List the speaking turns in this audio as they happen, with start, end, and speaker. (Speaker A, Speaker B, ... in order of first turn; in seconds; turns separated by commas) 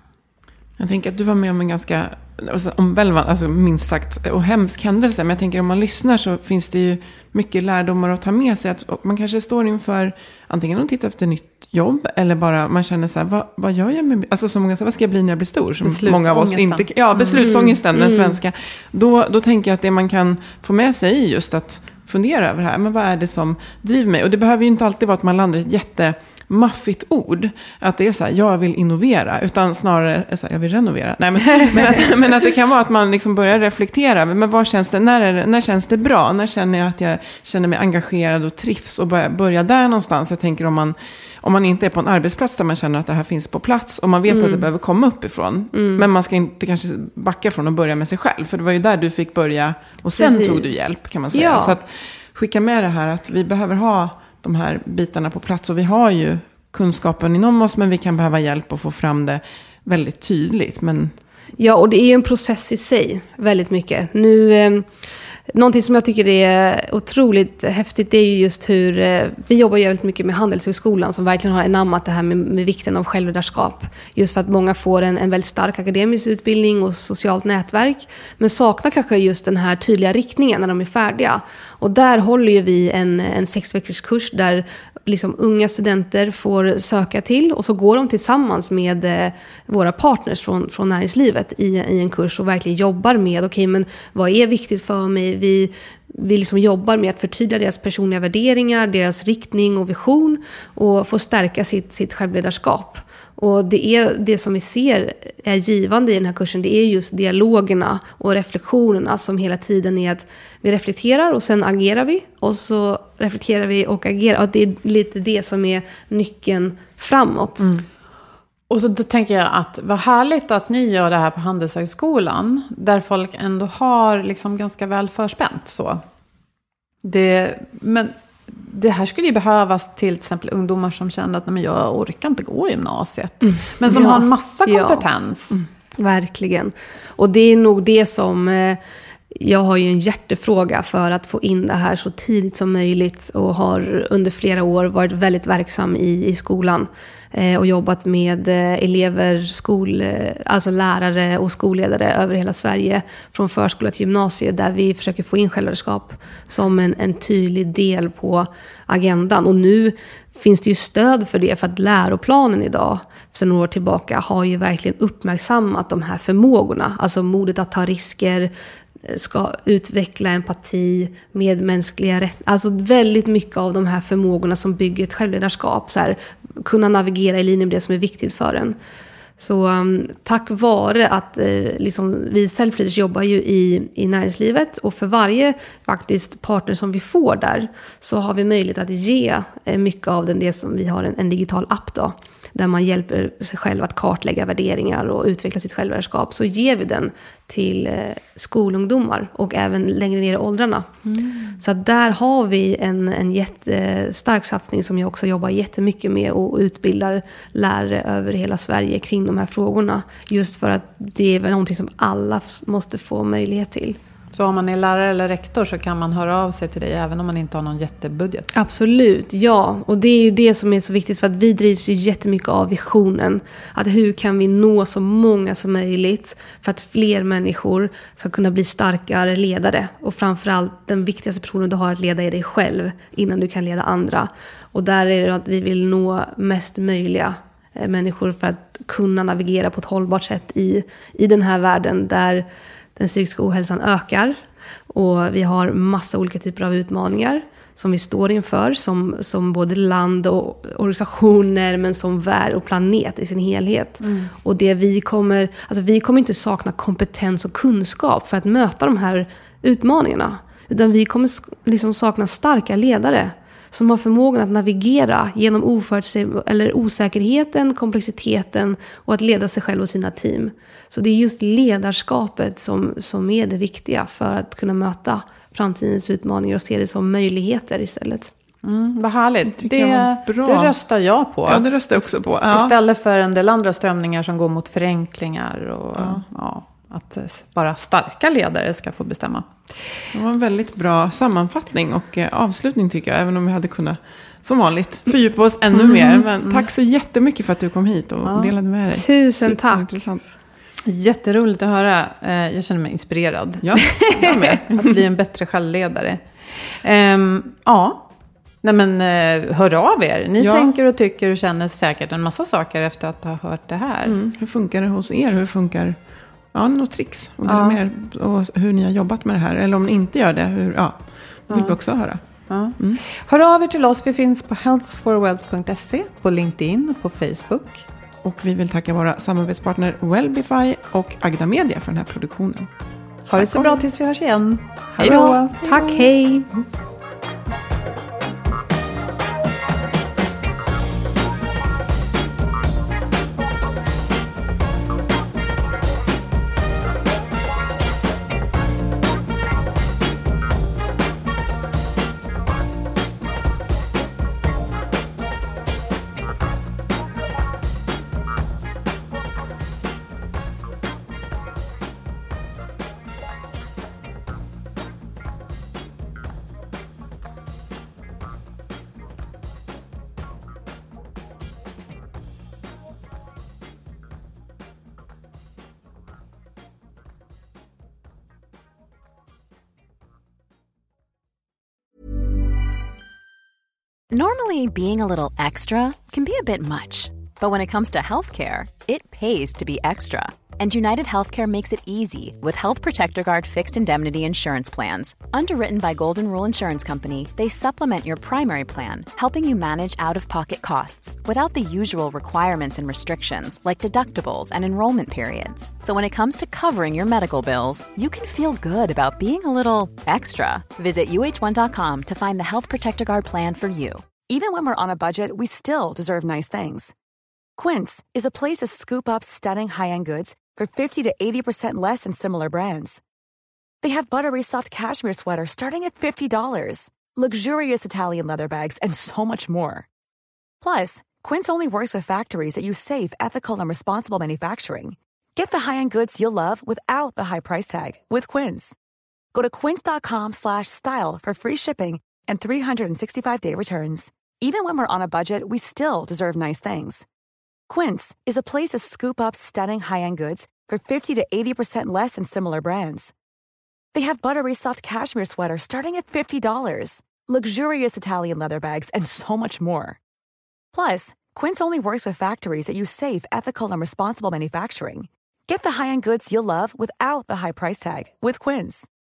Speaker A: 0.8-61.1, Speaker B: 15.8-17.7, Speaker C: 17.4-18.4, Speaker C: 44.3-44.7, Speaker C: 45.7-46.1, Speaker C: 50.2-50.7, Speaker C: 51.3-51.8, Speaker C: 61.6-64.9, Speaker C: 65.5-117.7, Speaker B: 118.7-126.0, Speaker B: 127.0-135.6, Speaker C: 133.9-135.1, Speaker C: 136.0-138.8, Speaker C: 139.3-168.5, Speaker C: 169.0-178.8, Speaker C: 179.4-200.9, Speaker B: 201.1-201.5, Speaker C: 201.6-214.0, Speaker B: 214.3-218.5, Speaker C: 218.5-278.3, Speaker B: 254.0-254.3, Speaker B: 278.6-289.6, Speaker A: 279.6-280.7, Speaker A: 281.5-282.8, Speaker A: 286.0-286.2, Speaker A: 290.1-300.2, Speaker B: 295.8-296.7, Speaker B: 298.3-298.5, Speaker C: 298.9-300.1, Speaker B: 300.9-308.1, Speaker A: 303.6-305.0, Speaker B: 308.6-314.2, Speaker A: 310.4-310.7, Speaker A: 314.1-316.0, Speaker A: 316.5-322.2, Speaker B: 317.4-317.8, Speaker B: 321.5-321.8, Speaker B: 322.5-327.9, Speaker A: 328.2-332.7, Speaker B: 333.3-336.1, Speaker A: 333.4-333.8, Speaker C: 335.0-336.5, Speaker D: 384.1-414.1, Speaker E: 414.2-416.9, Speaker E: 417.6-423.0, Speaker E: 423.8-429.9, Speaker E: 430.6-438.8, Speaker E: 439.3-447.1, Speaker E: 447.7-453.1, Speaker E: 453.9-460.0, Speaker E: 460.7-468.9